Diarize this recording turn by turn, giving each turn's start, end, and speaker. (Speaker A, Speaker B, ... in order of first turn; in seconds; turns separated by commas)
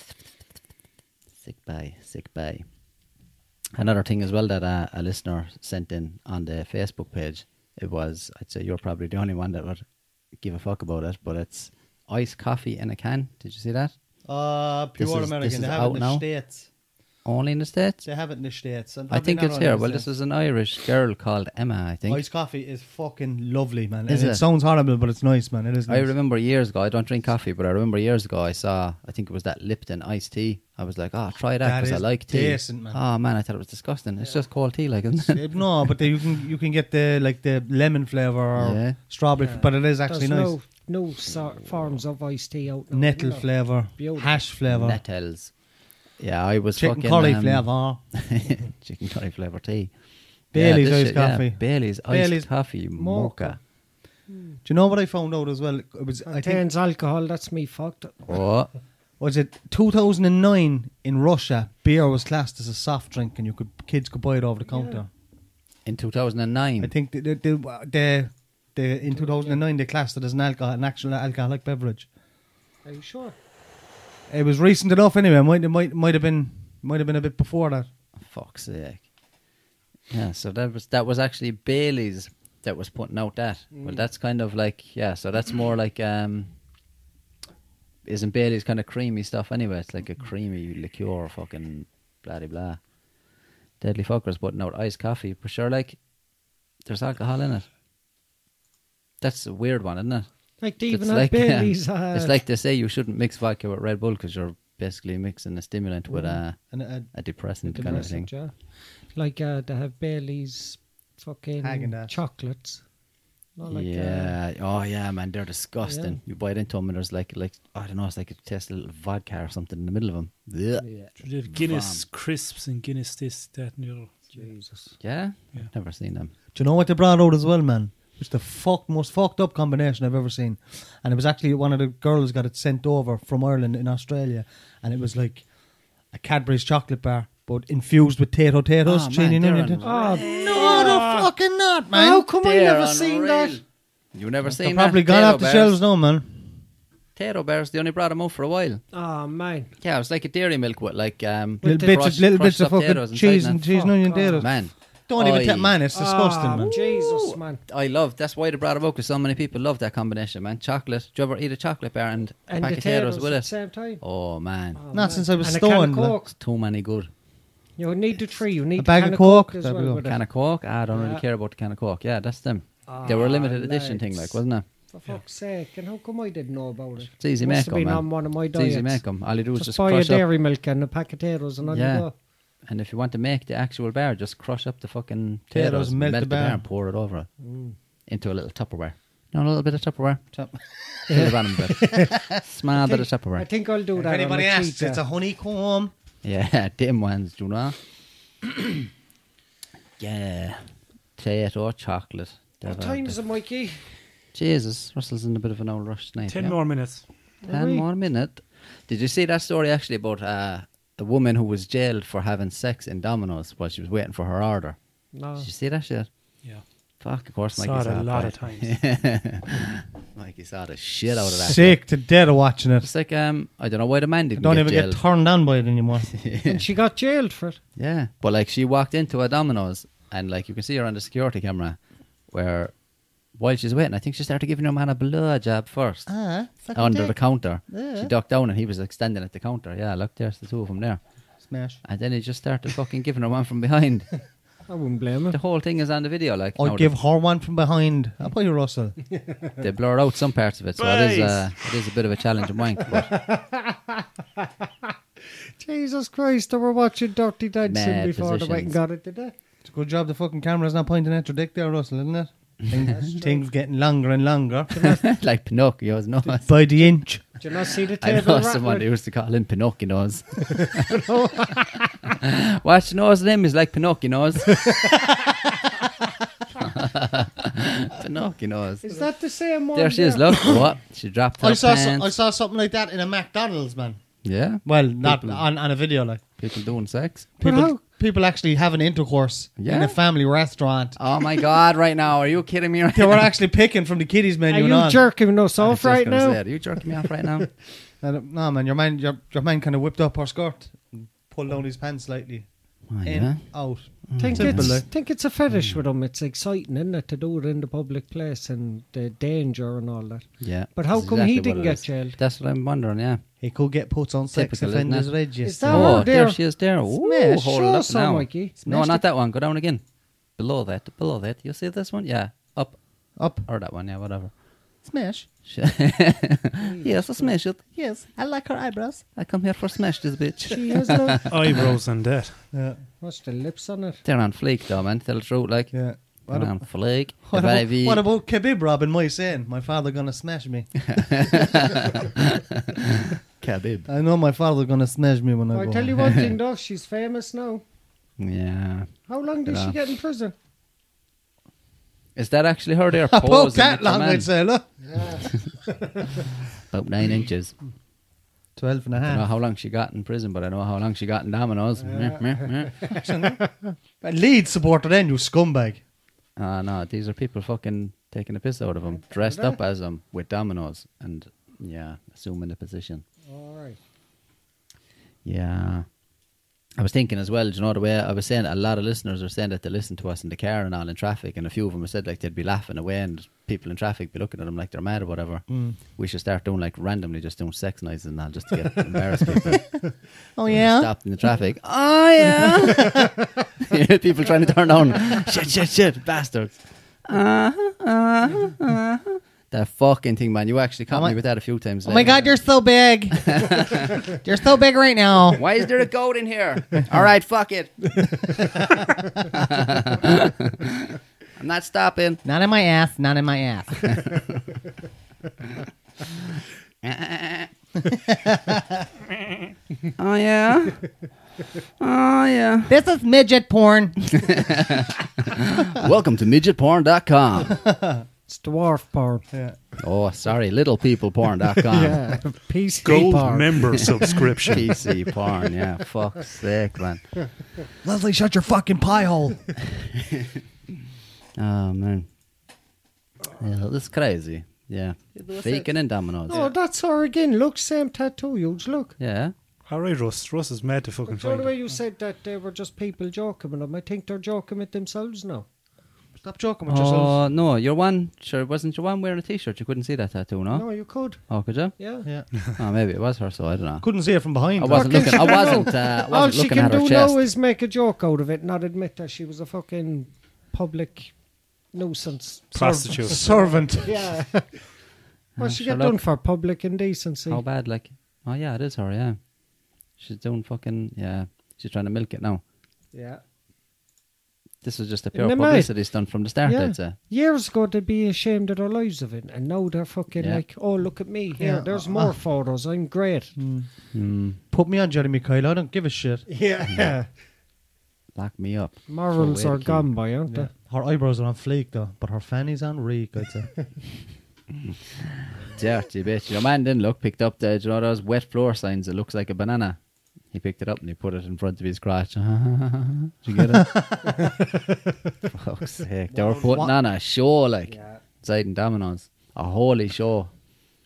Speaker A: 1.4-2.6, Speaker A: 3.7-13.9, Speaker B: 14.2-16.7, Speaker A: 15.0-16.2, Speaker A: 17.2-18.0, Speaker B: 18.0-20.1, Speaker A: 19.1-22.2, Speaker B: 22.1-26.1, Speaker A: 24.1-24.4, Speaker A: 25.9-35.4, Speaker B: 31.6-33.0, Speaker B: 35.2-40.5, Speaker A: 38.5-39.0, Speaker C: 39.4-44.4, Speaker B: 42.9-45.0, Speaker A: 44.7-45.5, Speaker A: 46.2-49.9, Speaker B: 46.7-48.0, Speaker A: 50.5-53.6, Speaker B: 50.5-52.5, Speaker C: 53.0-53.6, Speaker C: 54.3-54.6, Speaker B: 54.6-56.6, Speaker C: 56.2-58.1, Speaker A: 58.2-58.7, Speaker B: 59.2-65.1, Speaker C: 64.7-65.0, Speaker A: 65.8-66.9, Speaker B: 66.8-72.1, Speaker C: 69.1-69.6, Speaker C: 72.8-73.3, Speaker B: 74.3-77.9, Speaker A: 78.2-79.0, Speaker A: 80.1-86.5, Speaker C: 83.7-84.0, Speaker A: 88.0-92.8, Speaker A: 93.8-96.0, Speaker A: 96.8-97.7, Speaker A: 99.2-100.3, Speaker C: 100.6-102.4, Speaker A: 100.8-106.6, Speaker C: 106.1-106.4, Speaker B: 106.6-107.1, Speaker A: 107.1-108.3, Speaker C: 107.7-112.8, Speaker B: 111.6-112.1, Speaker C: 113.5-114.3, Speaker A: 113.7-120.8, Speaker C: 115.8-116.2, Speaker C: 120.8-121.1, Speaker D: 121.2-124.3, Speaker A: 121.5-122.0, Speaker C: 124.3-125.0, Speaker A: 125.0-126.3, Speaker B: 126.5-135.4, Speaker B: 136.1-142.2, Speaker A: 138.8-141.0, Speaker C: 139.8-141.3, Speaker C: 141.9-143.6, Speaker A: 142.4-145.8, Speaker B: 144.5-146.5, Speaker A: 147.2-148.8, Speaker C: 148.9-149.7, Speaker A: 149.8-153.8, Speaker B: 151.6-156.7, Speaker C: 153.7-154.5, Speaker A: 154.4-155.8, Speaker C: 155.9-157.6, Speaker A: 156.6-163.5, Speaker C: 162.5-164.0, Speaker A: 164.0-164.8, Speaker C: 164.7-166.3, Speaker B: 164.9-166.2, Speaker A: 166.3-167.1, Speaker C: 167.8-170.2, Speaker B: 168.8-170.0, Speaker A: 170.0-174.6, Speaker C: 170.9-171.2, Speaker C: 172.9-174.4, Speaker C: 174.9-179.0, Speaker A: 177.2-180.2, Speaker C: 179.5-182.1, Speaker A: 181.7-182.1, Speaker A: 182.6-187.3, Speaker B: 185.5-186.6, Speaker C: 187.4-187.7, Speaker A: 188.1-190.2, Speaker B: 190.3-192.3, Speaker C: 191.1-192.1, Speaker A: 191.1-193.4, Speaker C: 192.8-195.0, Speaker B: 193.9-195.9, Speaker A: 196.2-197.8, Speaker A: 198.4-198.8, Speaker A: 200.0-203.2, Speaker C: 202.6-203.9, Speaker A: 204.3-206.6, Speaker D: 206.2-207.0, Speaker C: 207.4-207.9, Speaker A: 207.5-214.8, Speaker C: 215.1-215.5, Speaker A: 215.4-216.1, Speaker A: 217.0-221.8, Speaker D: 217.6-218.8, Speaker B: 221.2-222.9, Speaker A: 222.8-225.0, Speaker B: 224.4-226.2, Speaker A: 226.1-226.6, Speaker C: 226.4-227.6, Speaker A: 227.8-232.7, Speaker A: 233.3-236.1, Speaker B: 236.1-238.1, Speaker A: 236.7-241.0, Speaker B: 241.4-241.8, Speaker A: 241.8-244.1, Speaker C: 244.7-245.4, Speaker A: 245.3-246.9, Speaker B: 246.6-249.0, Speaker C: 249.2-249.6, Speaker A: 249.6-253.1, Speaker D: 250.8-251.4, Speaker C: 252.8-254.9, Speaker C: 255.6-259.3, Speaker A: 257.6-258.8, Speaker B: 259.6-264.9, Speaker C: 262.9-263.4, Speaker A: 264.8-266.9, Speaker B: 266.4-267.4, Speaker C: 267.4-268.9, Speaker A: 268.0-270.9, Speaker C: 270.6-272.1, Speaker A: 272.1-274.8, Speaker A: 276.6-278.9, Speaker C: 278.8-280.6, Speaker A: 279.7-282.1, Speaker B: 281.4-284.0, Speaker A: 284.2-285.4, Speaker B: 284.6-286.2, Speaker A: 286.4-287.3, Speaker B: 287.4-291.0, Speaker C: 287.4-287.8, Speaker A: 289.6-290.0, Speaker A: 290.9-293.3, Speaker B: 292.9-295.0, Speaker C: 294.5-297.3, Speaker A: 295.6-297.5, Speaker B: 298.0-304.9, Speaker A: 302.9-304.9, Speaker C: 304.2-312.2, Speaker A: 305.5-305.8, Speaker A: 310.4-313.2, Speaker B: 313.4-316.1, Speaker A: 314.3-319.8, Speaker C: 315.4-316.4, Speaker C: 316.9-318.6, Speaker B: 318.6-319.0, Speaker A: 320.4-322.8, Speaker B: 323.2-323.4, Speaker A: 323.3-324.3, Speaker B: 324.8-325.3, Speaker A: 325.4-328.1, Speaker C: 326.6-327.3, Speaker B: 327.7-329.0, Speaker A: 329.0-331.7, Speaker C: 330.4-331.3, Speaker D: 331.2-332.4, Speaker B: 332.5-332.8, Speaker C: 333.0-334.0, Speaker A: 334.0-338.0, Speaker B: 335.7-341.3, Speaker A: 340.9-343.9, Speaker B: 343.9-346.0, Speaker C: 345.5-347.6, Speaker A: 348.2-349.7, Speaker C: 349.1-350.3, Speaker A: 352.1-354.3, Speaker B: 353.0-354.8, Speaker C: 354.9-355.9, Speaker A: 356.6-357.5, Speaker B: 358.6-359.2, Speaker A: 359.0-362.9, Speaker C: 361.8-363.0, Speaker B: 362.8-365.8, Speaker A: 366.4-373.0, Speaker C: 369.0-369.6, Speaker C: 373.2-373.8, Speaker A: 375.2-375.9, Speaker A: 376.8-389.8, Speaker B: 385.5-385.8, Speaker B: 390.3-390.9, Speaker A: 390.5-402.3, Speaker B: 400.9-401.2, Speaker B: 401.8-405.4, Speaker A: 403.2-403.8, Speaker A: 405.4-408.3, Speaker A: 409.3-412.2, Speaker B: 412.2-414.0, Speaker A: 416.8-417.5, Speaker B: 418.1-418.6, Speaker A: 420.0-420.9, Speaker A: 421.8-422.7, Speaker B: 422.7-424.2, Speaker A: 424.1-427.6, Speaker B: 427.5-428.1, Speaker C: 428.3-429.2, Speaker B: 429.3-429.6, Speaker A: 429.8-432.2, Speaker C: 431.6-434.1, Speaker D: 432.8-434.8, Speaker A: 434.5-437.5, Speaker B: 437.8-439.6, Speaker A: 439.7-440.4, Speaker A: 441.4-442.1, Speaker A: 443.3-446.4, Speaker B: 445.1-445.7, Speaker C: 446.2-448.9, Speaker A: 449.0-449.3, Speaker D: 449.7-451.5, Speaker C: 451.1-455.4, Speaker B: 456.2-457.2, Speaker A: 456.7-461.8, Speaker C: 460.5-461.2, Speaker C: 461.8-462.1, Speaker A: 462.3-467.2, Speaker B: 463.8-465.6, Speaker C: 464.7-472.5, Speaker D: 472.5-473.2, Speaker B: 472.5-474.2, Speaker C: 473.1-474.7, Speaker A: 475.4-476.0, Speaker C: 475.4-477.4, Speaker A: 477.3-479.2, Speaker A: 480.0-482.4, Speaker C: 482.9-483.2, Speaker A: 484.6-487.0, Speaker C: 485.1-493.4, Speaker A: 490.1-490.4, Speaker B: 491.4-492.2, Speaker B: 493.4-493.7, Speaker A: 493.9-494.4, Speaker B: 494.4-496.4, Speaker C: 496.3-497.1, Speaker A: 498.1-499.9, Speaker C: 498.9-500.5, Speaker B: 500.3-503.7, Speaker A: 505.5-509.8, Speaker A: 510.3-513.7, Speaker B: 513.4-514.1, Speaker C: 514.1-514.7, Speaker A: 515.3-520.3, Speaker B: 516.1-516.8, Speaker C: 517.6-518.0